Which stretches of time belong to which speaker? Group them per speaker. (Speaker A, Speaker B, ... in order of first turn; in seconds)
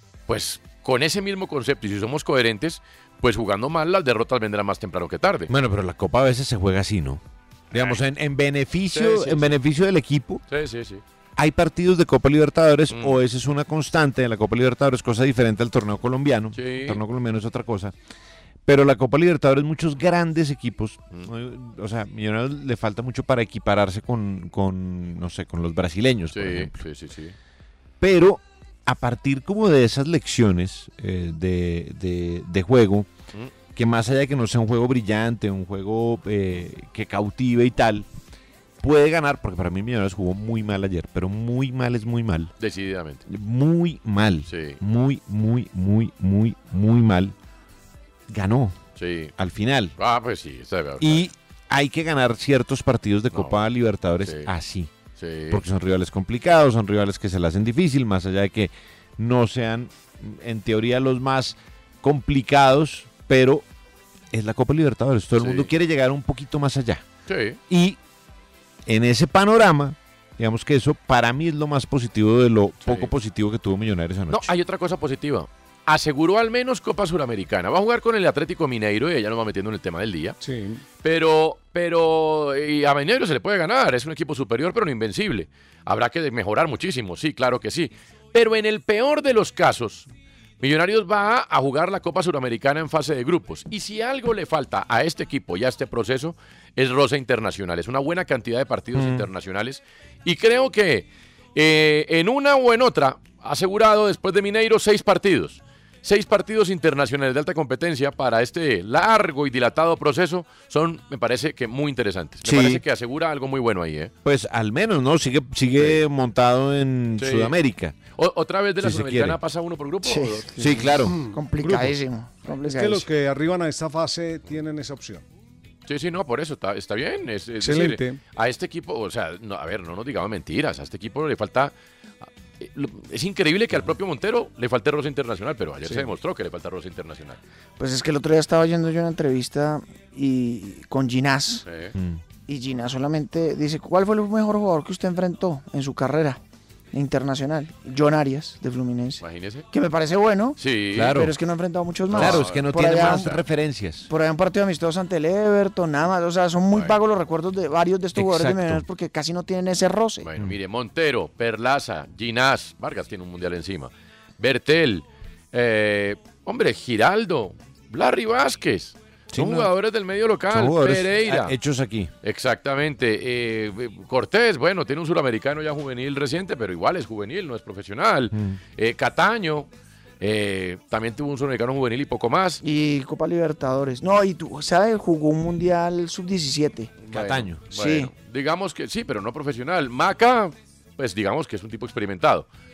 Speaker A: 0.3-5.5, 7.7-8.0, 8.9-9.6, 10.5-11.0, 12.9-13.2, 16.6-17.0, 26.3-27.4, 42.6-43.2, 44.5-44.8, 49.0-49.3, 50.0-51.3, 53.3-53.6, 54.2-54.5, 55.2-55.6, 65.4-65.7, 67.3-67.6, 72.8-73.1, 74.3-80.4, 81.0-90.1, 90.6-114.1, 117.2-117.6, 118.2-120.7, 125.9-131.7, 132.6-137.4, 141.7-141.9, 149.2-149.7, 150.6-151.2, 152.1-153.4, 160.2-171.5, 172.2-179.7, 180.2-182.6, 187.1-192.5
Speaker B: 5.5-10.4, 11.4-17.9, 18.7-26.8, 28.0-33.1, 33.8-38.1, 38.8-42.5, 43.3-47.4, 48.3-48.8, 49.4-49.9, 51.0-54.9, 55.5-63.6, 64.3-67.0, 67.7-68.0, 68.9-74.5, 98.9-99.3, 112.4-112.8, 114.2-118.0, 118.8-119.4, 120.6-121.2, 141.9-142.2, 150.9-151.3, 152.1-154.1, 158.2-158.8, 169.3-169.7, 170.5-172.1, 178.3-178.6, 187.1-187.6
Speaker C: 80.4-80.8, 121.1-122.0, 122.6-125.2, 127.6-128.2
Speaker D: 120.0-123.1, 137.8-141.6, 142.5-146.4, 146.9-150.6, 151.1-153.3, 154.1-160.3, 182.6-186.9, 187.7-188.1